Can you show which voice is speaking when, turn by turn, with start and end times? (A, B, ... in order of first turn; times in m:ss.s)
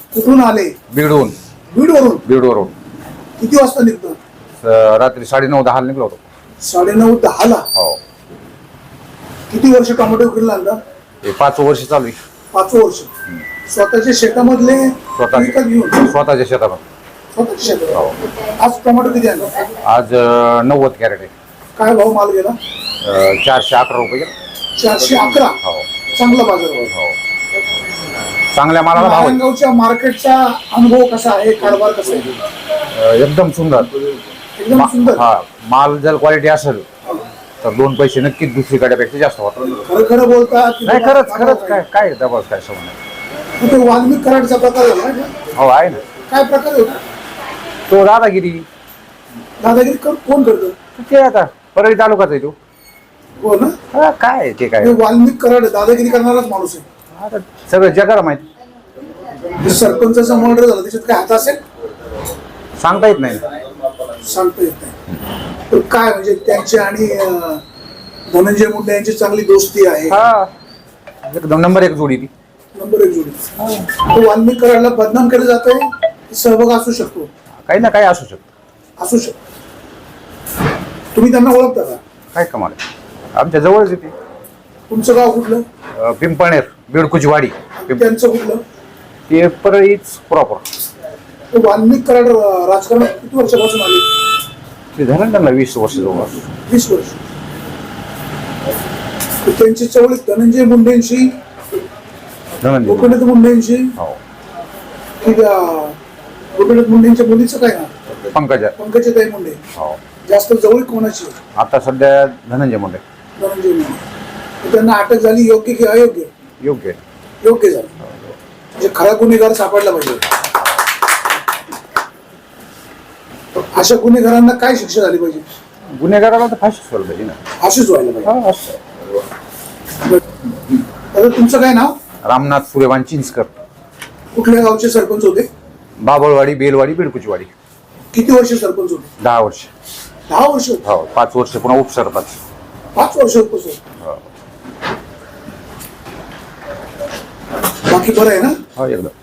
0:00.1-0:00.7 A
0:00.9-0:01.4 B
0:01.7-0:02.2 A
0:02.2-0:02.7 B
0:03.4-0:04.2 A
0:04.6-0:06.2 B
0:06.6-0:07.7 A
0:09.5-0:10.8 A
0:11.2-0:12.2 B
0:12.5-0:13.1 A
0:13.7-0:16.1 A
0:15.1-0:16.8 B
0:17.3-0:18.0 A
0:18.5-0:19.7 A
0:19.8-0:21.3 B
0:21.8-0:22.6 A
0:23.0-0:24.3 B
0:24.8-0:25.6 A
0:25.6-0:25.9 B
0:26.1-0:26.9 A
0:26.9-0:27.2 B
0:28.5-0:29.4 B
0:28.9-0:32.3 A
0:32.9-0:34.0 B
0:34.6-0:35.2 A
0:34.7-0:36.8 B
0:37.6-0:39.8 B
0:39.8-0:41.8 A
0:40.8-0:43.0 B
0:43.6-0:45.4 A
0:45.5-0:46.0 B
0:46.3-0:47.0 A
0:47.9-0:48.6 B
0:49.6-0:50.8 A
0:51.0-0:52.5 B
0:53.4-0:53.7 A
0:53.9-0:55.0 B
0:54.8-0:56.8 A
0:57.1-0:58.4 B
0:59.5-1:01.6 A
1:02.8-1:03.5 B
1:04.2-1:04.9 A
1:05.7-1:07.6 A
1:08.3-1:10.2 A
1:10.1-1:10.5 B
1:11.2-1:12.3 B
1:12.7-1:13.4 A
1:13.6-1:13.9 B
1:13.9-1:17.3 A
1:17.6-1:18.4 B
1:19.0-1:19.4 A
1:21.1-1:22.0 A
1:22.3-1:22.8 B
1:23.3-1:24.1 B
1:24.9-1:25.6 A
1:26.0-1:28.1 B
1:27.8-1:28.6 A
1:29.3-1:30.6 B
1:31.5-1:34.0 A
1:34.9-1:36.4 B
1:36.7-1:37.2 A
1:39.4-1:41.3 A
1:42.6-1:43.2 B
1:42.8-1:43.9 A
1:45.2-1:46.0 A
1:46.6-1:47.9 A
1:48.3-1:48.7 B
1:48.8-1:49.6 A
1:50.3-1:51.4 A
1:51.6-1:53.0 B
1:53.4-1:54.0 A
1:54.6-1:56.3 A
1:56.6-1:57.0 B
1:57.4-1:57.9 A
1:58.8-2:00.3 A
2:03.7-2:05.5 A
2:05.9-2:07.4 B
2:07.6-2:08.3 A
2:08.2-2:09.0 B
2:11.1-2:11.9 A
2:12.2-2:13.5 B
2:14.3-2:15.5 A
2:16.0-2:17.5 B
2:18.1-2:19.1 A
2:19.2-2:19.7 B
2:20.3-2:20.8 A
2:20.8-2:22.4 B
2:22.9-2:23.8 A
2:27.9-2:28.6 A
2:28.8-2:29.1 B